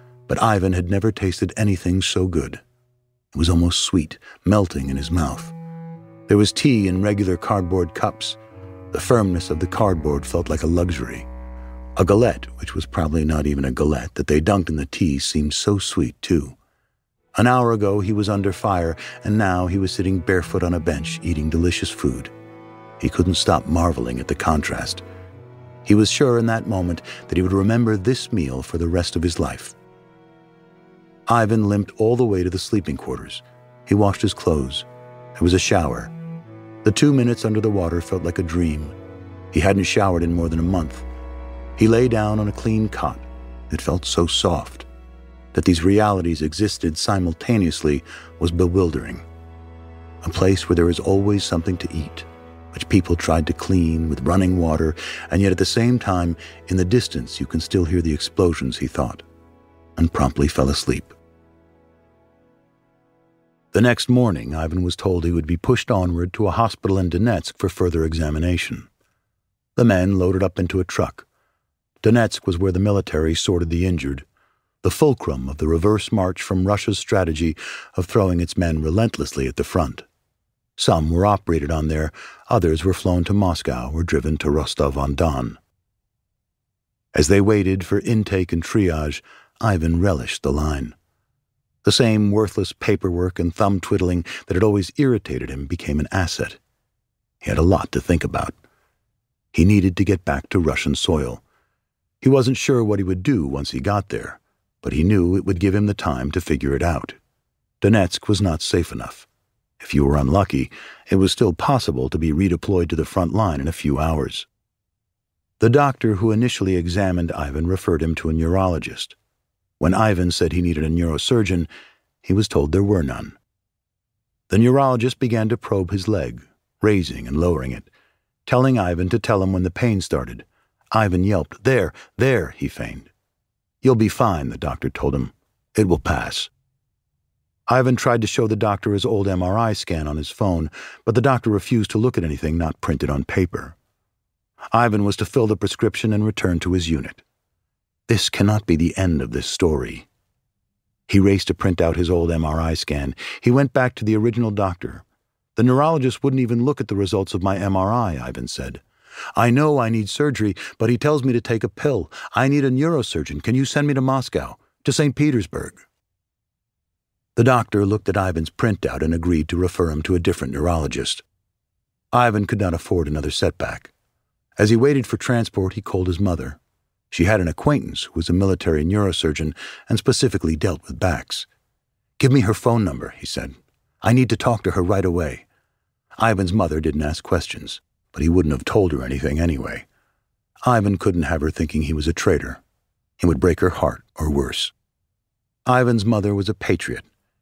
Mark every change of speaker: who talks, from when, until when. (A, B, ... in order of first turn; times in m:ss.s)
0:00.3-0:02.6 A
0:03.3-0:05.6 A
0:06.3-0:08.4 A
0:08.9-0:11.3 A
0:12.0-0:16.6 A
0:17.4-0:22.3 A
0:23.0-0:25.0 A
0:25.8-0:29.8 A
0:31.3-0:36.1 A
0:36.8-0:39.0 A
0:39.5-0:41.1 A
0:41.8-0:44.9 A
0:45.5-0:49.2 A
0:50.2-0:59.2 A
1:00.0-1:01.2 A
1:03.7-1:08.9 A
1:09.8-1:11.3 A
1:12.0-1:14.3 A
1:14.8-1:20.1 A
1:20.8-1:25.6 A
1:27.2-1:31.0 A
1:31.8-1:36.6 A
1:37.4-1:38.5 A
1:39.5-1:41.4 A
1:42.2-1:47.2 A
1:47.8-1:49.3 A
1:49.8-1:54.5 A
1:55.6-1:59.2 A
1:59.8-2:01.7 A
2:02.2-2:03.4 A
2:04.5-2:07.9 A
2:08.5-2:13.1 A
2:13.8-2:16.5 A
2:17.7-2:23.8 A
2:24.7-2:27.2 A
2:28.1-2:30.1 A
2:31.1-2:35.0 A
2:35.6-2:38.8 A
2:39.4-2:45.8 A
2:47.4-2:51.2 A
2:52.1-2:53.9 A
2:54.6-2:56.6 A
2:57.1-3:01.5 A
3:02.2-3:05.5 A
3:06.2-3:09.9 A
3:10.7-3:12.6 A
3:13.2-3:14.7 A
3:15.7-3:17.1 A